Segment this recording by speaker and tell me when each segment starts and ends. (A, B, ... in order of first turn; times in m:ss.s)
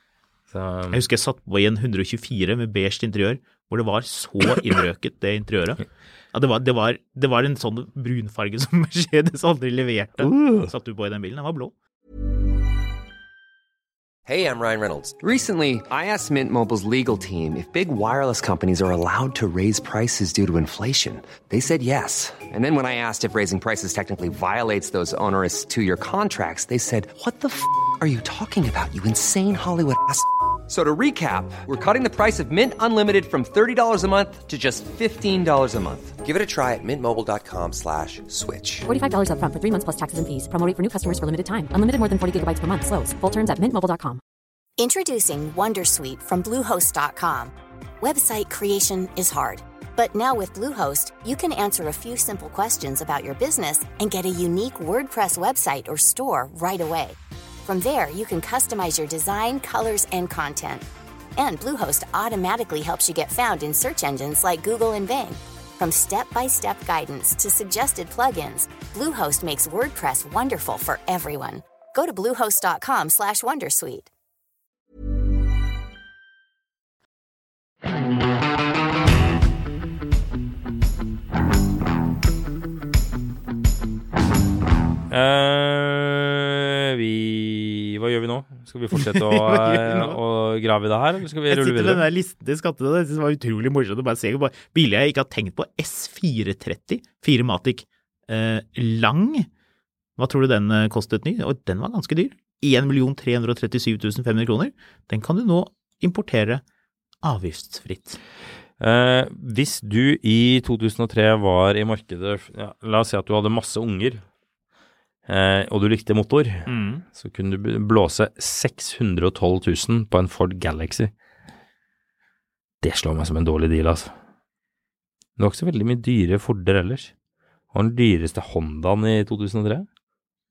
0:00.5-0:01.0 A
0:00.9-0:11.7 B
0:10.2-0:10.7 A
0:14.3-0:38.9 C
0:38.9-0:44.2 D
0:44.8-1:14.1 E
1:25.1-1:32.1 A
1:28.9-1:30.2 B
1:31.5-1:39.5 B
1:40.2-1:46.6 B
1:47.2-1:48.2 B
1:48.8-1:54.2 A
1:55.3-2:01.1 A
1:56.7-1:57.0 B
2:02.8-2:04.1 A
2:05.4-2:07.1 A
2:07.7-2:09.9 A